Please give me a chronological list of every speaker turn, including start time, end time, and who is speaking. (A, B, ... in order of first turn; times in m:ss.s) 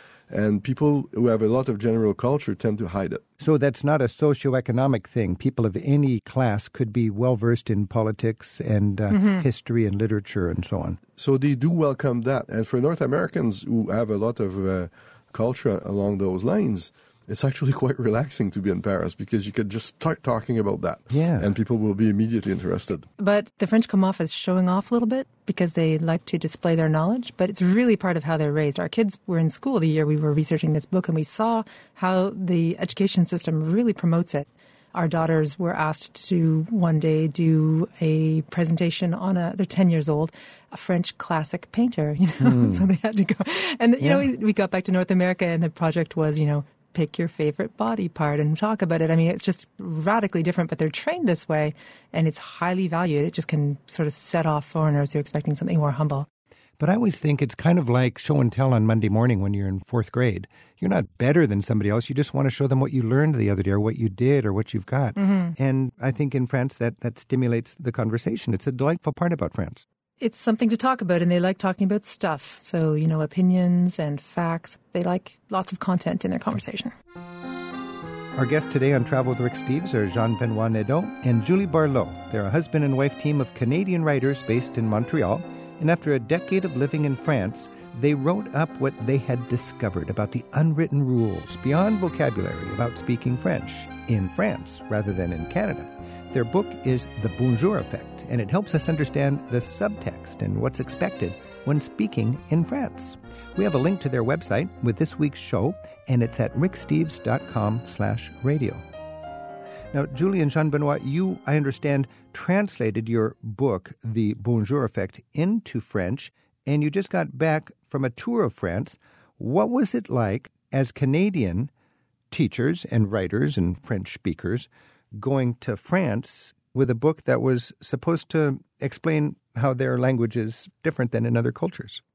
0:00.3-0:03.2 A
0:03.4-0:11.0 B
0:09.1-0:09.5 C
0:11.2-0:23.1 A
0:21.1-0:21.5 B
0:23.2-0:56.3 C
0:42.4-0:42.8 B
0:44.0-0:44.3 B
0:56.8-1:09.8 B
1:05.2-1:05.6 C
1:10.2-1:16.9 C
1:18.4-1:48.8 B
1:49.9-2:01.7 B
2:02.3-2:12.0 B